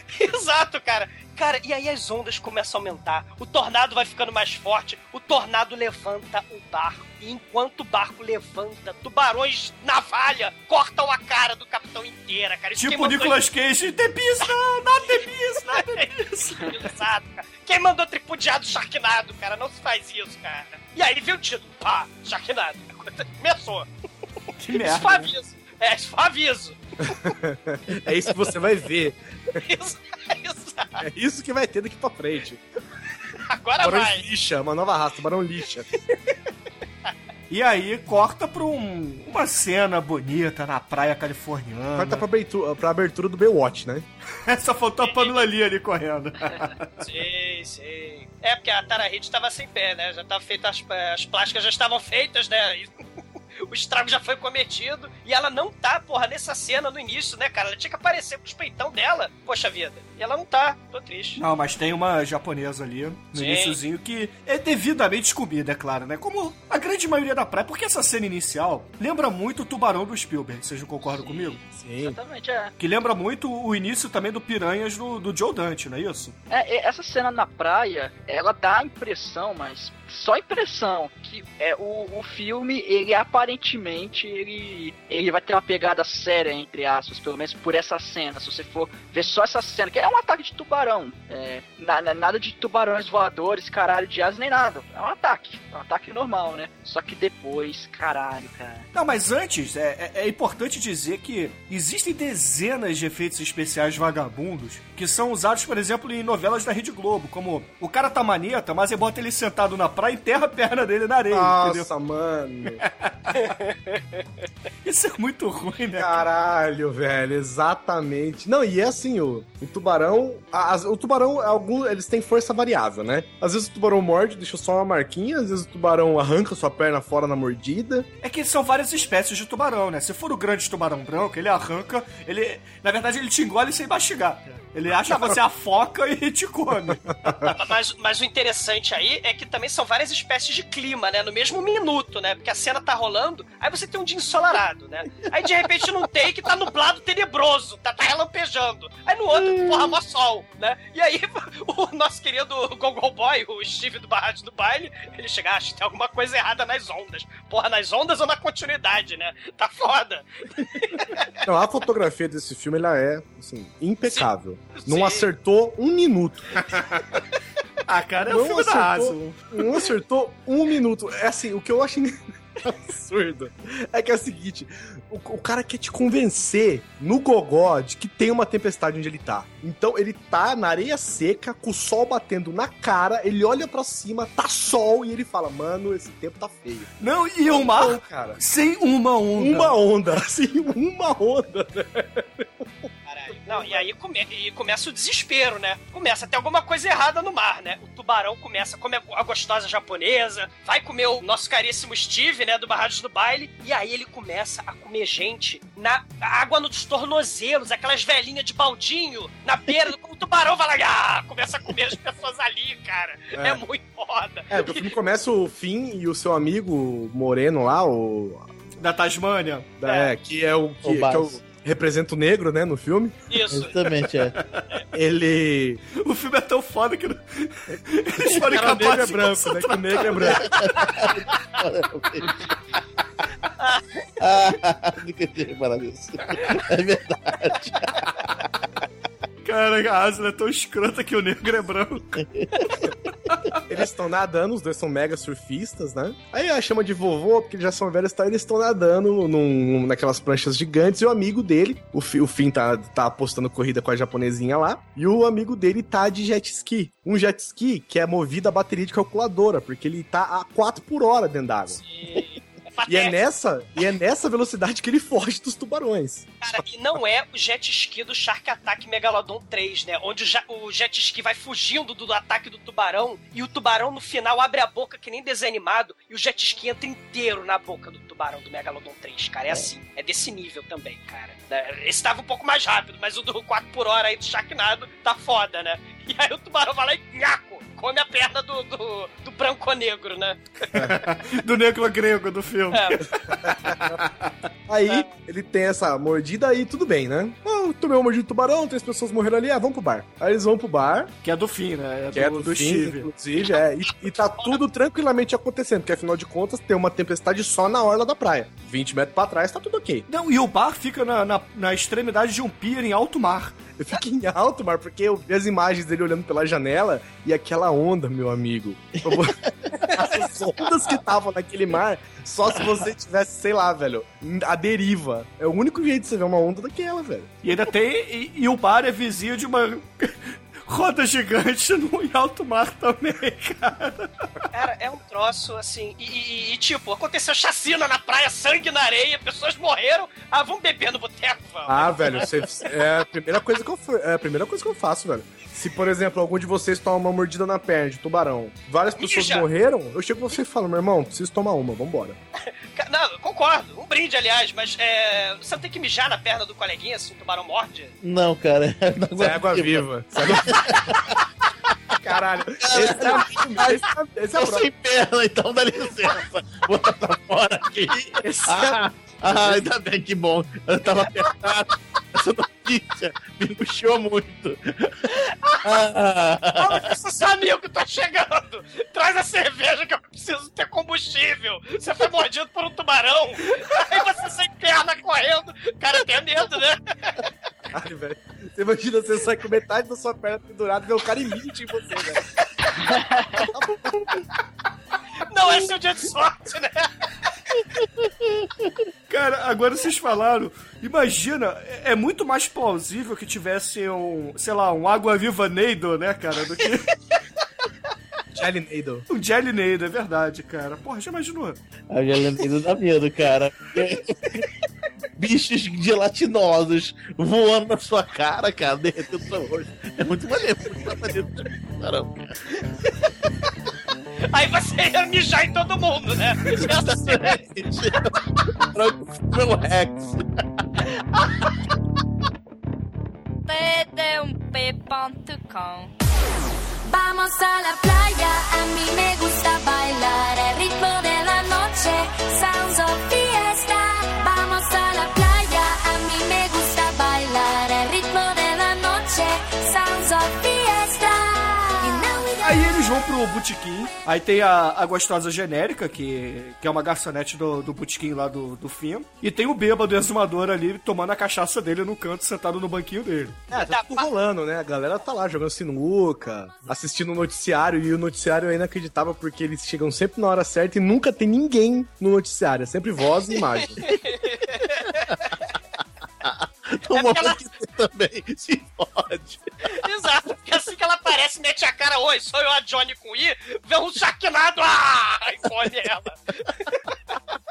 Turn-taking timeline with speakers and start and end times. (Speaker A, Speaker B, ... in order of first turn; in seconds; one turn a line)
Speaker A: 0.1-13.4
Speaker B: 12.8-16.9
Speaker A: 15.7-23.9
Speaker B: 24.6-25.3
Speaker A: 24.8-27.3
Speaker C: 27.0-29.6
Speaker A: 29.5-31.0
Speaker C: 31.0-32.6
Speaker A: 33.4-34.2
Speaker C: 33.8-35.9
Speaker B: 37.5-42.2
Speaker C: 42.0-44.1
Speaker B: 44.5-47.0
Speaker A: 45.0-45.4
Speaker A: 47.0-52.9
Speaker A: 53.6-61.4
Speaker B: 61.4-71.6
Speaker A: 63.3-63.8
Speaker D: 71.1-72.7
Speaker C: 71.8-72.2
Speaker B: 72.8-76.3
Speaker D: 76.5-98.9
Speaker B: 98.9-111.9
Speaker C: 111.3-112.8
Speaker B: 112.8-113.5
Speaker A: 113.7-114.0
Speaker B: 114.8-116.2
Speaker C: 116.0-128.1
Speaker B: 128.2-137.6
Speaker A: 137.5-161.3
Speaker E: 149.5-149.9
Speaker C: 161.4-166.6
Speaker A: 164.0-165.3
Speaker B: 166.7-167.2
Speaker B: 167.9-169.6
Speaker C: 168.3-188.4
Speaker B: 187.0-189.8
Speaker C: 189.4-192.8
Speaker A: 193.1-214.9
Speaker C: 193.4-193.9
Speaker C: 213.3-213.6
Speaker C: 214.5-218.5
Speaker B: 218.8-219.7
Speaker C: 219.8-223.2
Speaker A: 219.8-220.1
Speaker E: 220.8-221.3
Speaker A: 223.3-223.8
Speaker E: 223.5-224.3
Speaker B: 224.4-224.6
Speaker C: 224.9-225.8
Speaker B: 225.9-230.9
Speaker C: 228.4-230.6
Speaker E: 230.4-232.4
Speaker A: 233.6-233.8
Speaker E: 234.2-238.0
Speaker B: 239.4-242.2
Speaker E: 242.2-242.8
Speaker C: 243.7-261.8
Speaker A: 261.7-263.2
Speaker C: 262.9-266.3
Speaker A: 266.4-290.8
Speaker B: 290.8-294.3
Speaker A: 292.7-293.0
Speaker C: 293.4-294.0
Speaker C: 294.7-301.1
Speaker B: 301.2-303.1
Speaker C: 302.1-310.1
Speaker B: 310.1-313.6
Speaker C: 313.8-327.3
Speaker E: 319.1-320.5
Speaker B: 327.4-334.3
Speaker A: 334.5-342.3
Speaker C: 341.7-352.2
Speaker A: 349.0-349.4
Speaker A: 352.7-357.9
Speaker E: 358.0-361.2
Speaker C: 359.2-360.9
Speaker C: 362.0-364.7
Speaker E: 362.6-374.9
Speaker C: 368.2-369.6
Speaker A: 375.1-375.6
Speaker E: 375.6-376.9
Speaker A: 376.6-387.2
Speaker C: 387.7-392.2
Speaker C: 393.4-394.1
Speaker A: 395.2-397.1
Speaker E: 398.0-398.8
Speaker B: 399.1-406.9
Speaker C: 408.3-409.0
Speaker B: 409.1-411.6
Speaker E: 411.9-414.4
Speaker E: 415.2-423.1
Speaker A: 424.3-427.4
Speaker E: 426.4-430.4
Speaker F: 433.4-435.9
Speaker F: 436.8-452.8
Speaker B: 452.4-463.4
Speaker C: 463.5-473.8
Speaker A: 463.5-464.1
Speaker A: 473.8-475.3
Speaker E: 476.2-479.4
Speaker A: 476.9-477.4
Speaker A: 479.6-486.9